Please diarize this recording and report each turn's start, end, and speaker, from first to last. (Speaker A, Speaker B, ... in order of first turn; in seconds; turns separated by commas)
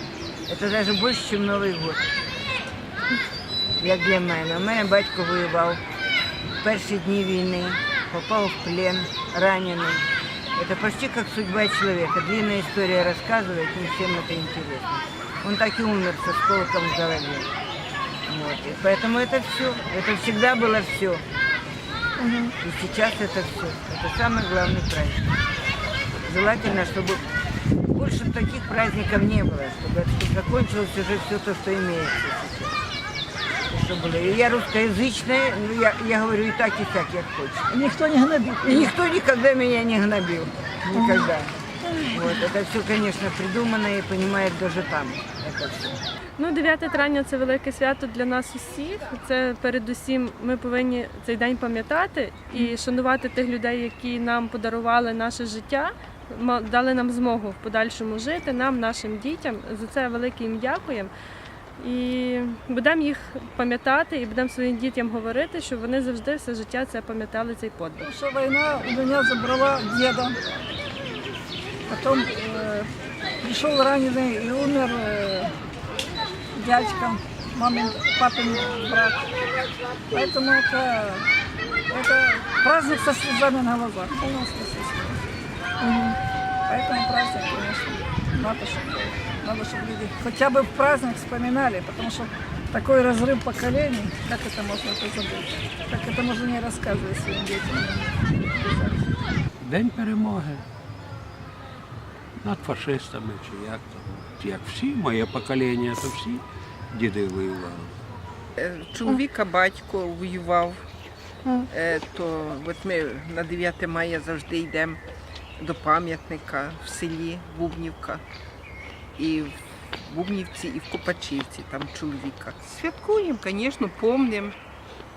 Speaker A: 0.5-2.0, Speaker A: 3.8-5.8, Speaker A: 6.6-10.0, Speaker A: 10.6-17.5, Speaker A: 18.3-21.2, Speaker A: 22.6-25.3, Speaker A: 26.2-27.2, Speaker A: 27.9-32.8, Speaker A: 33.7-37.7, Speaker B: 37.7-38.9, Speaker A: 38.6-41.5, Speaker B: 40.9-41.2, Speaker A: 42.1-46.0, Speaker C: 46.4-61.1, Speaker C: 61.8-68.1, Speaker B: 68.0-70.3, Speaker B: 71.9-72.9, Speaker B: 73.4-75.5, Speaker B: 76.5-79.3, Speaker B: 80.1-81.3, Speaker B: 81.9-85.4, Speaker B: 86.7-99.3, Speaker D: 99.6-100.6, Speaker D: 102.4-107.9, Speaker E: 108.6-110.8, Speaker E: 111.7-115.0, Speaker E: 115.6-118.2, Speaker E: 119.2-124.5